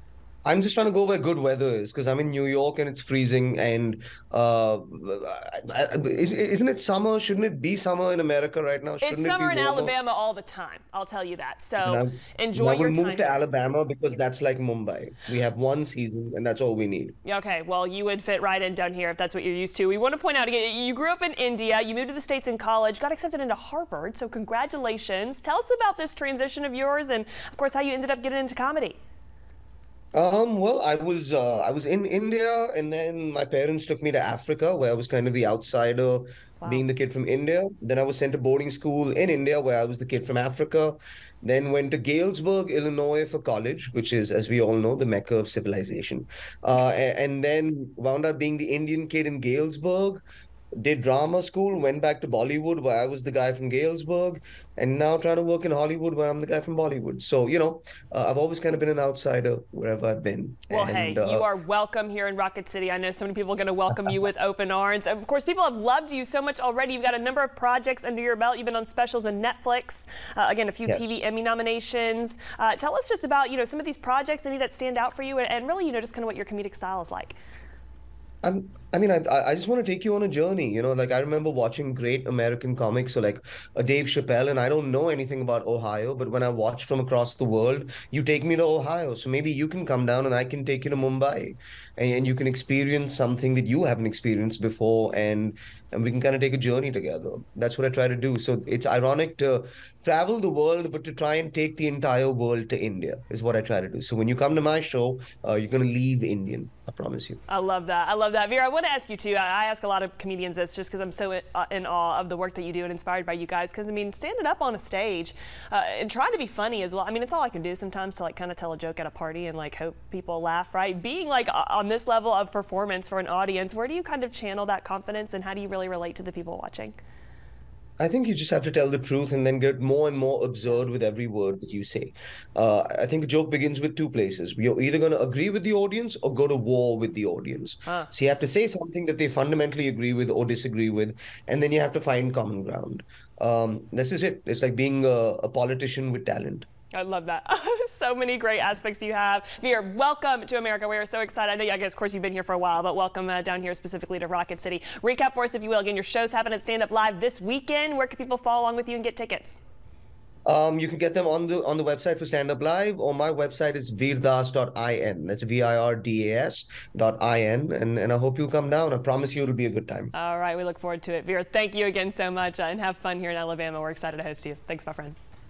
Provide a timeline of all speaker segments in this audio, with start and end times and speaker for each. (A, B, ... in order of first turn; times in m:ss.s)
0:00.4-0:09.9 A
0:09.0-0:13.4 B
0:11.8-0:17.2 A
0:17.2-0:29.0 B
0:30.1-0:50.2 A
0:50.7-1:01.5 A
1:00.7-1:17.4 B
1:10.8-1:11.1 A
1:18.4-1:47.4 A
1:47.5-2:07.0 B
2:08.0-2:26.7 A
2:26.9-2:39.6 B
2:40.4-2:50.1 A
2:50.1-2:55.1 B